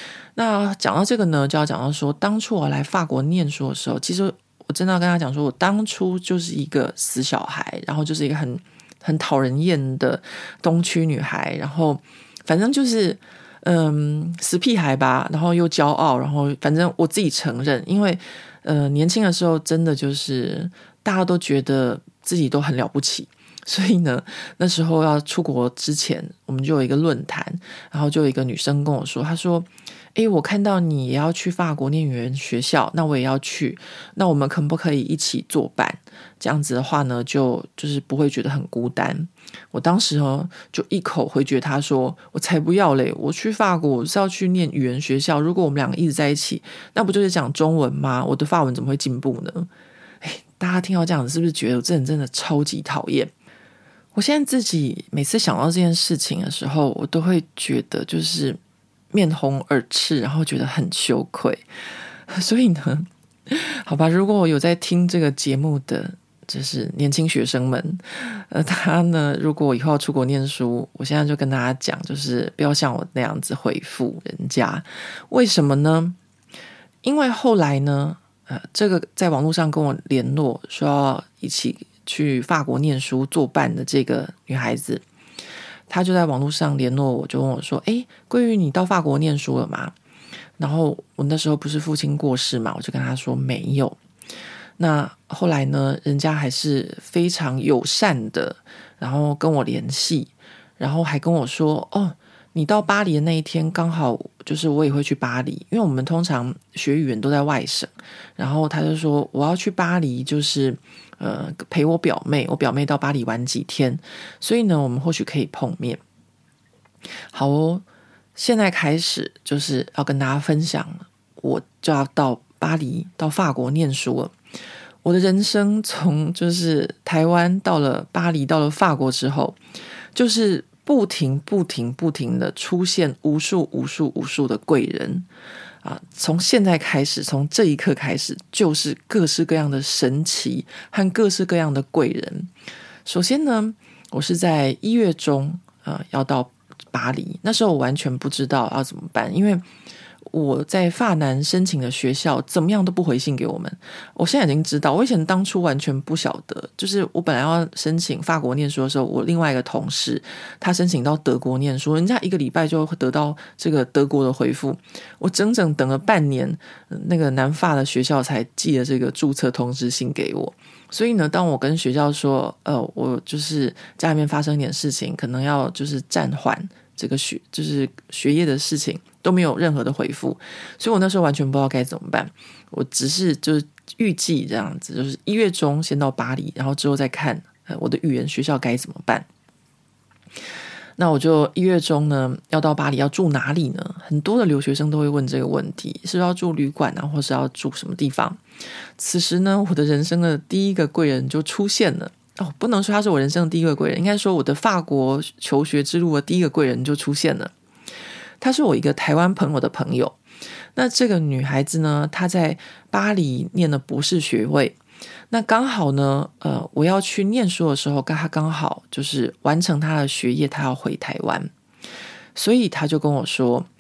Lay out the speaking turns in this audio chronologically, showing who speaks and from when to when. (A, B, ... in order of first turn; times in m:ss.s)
0:00.4-0:49.7 A
0:50.2-0:53.3 A
0:54.1-0:58.6 A
0:59.1-1:01.6 A
1:02.3-1:16.2 A
1:17.0-1:25.0 A
1:25.9-1:29.9 A
1:30.6-1:34.0 A
1:34.8-1:56.0 A
1:57.3-1:57.8 A
1:58.4-2:04.3 A
2:05.0-2:09.6 A
2:10.1-2:15.3 A
2:15.8-2:22.5 A
2:23.0-2:29.6 A
2:30.2-3:09.3 A
3:11.0-3:18.4 A
3:19.0-3:27.5 A
3:28.4-3:30.2 A
3:30.8-3:34.8 A
3:35.3-3:41.5 A
3:42.4-3:43.7 A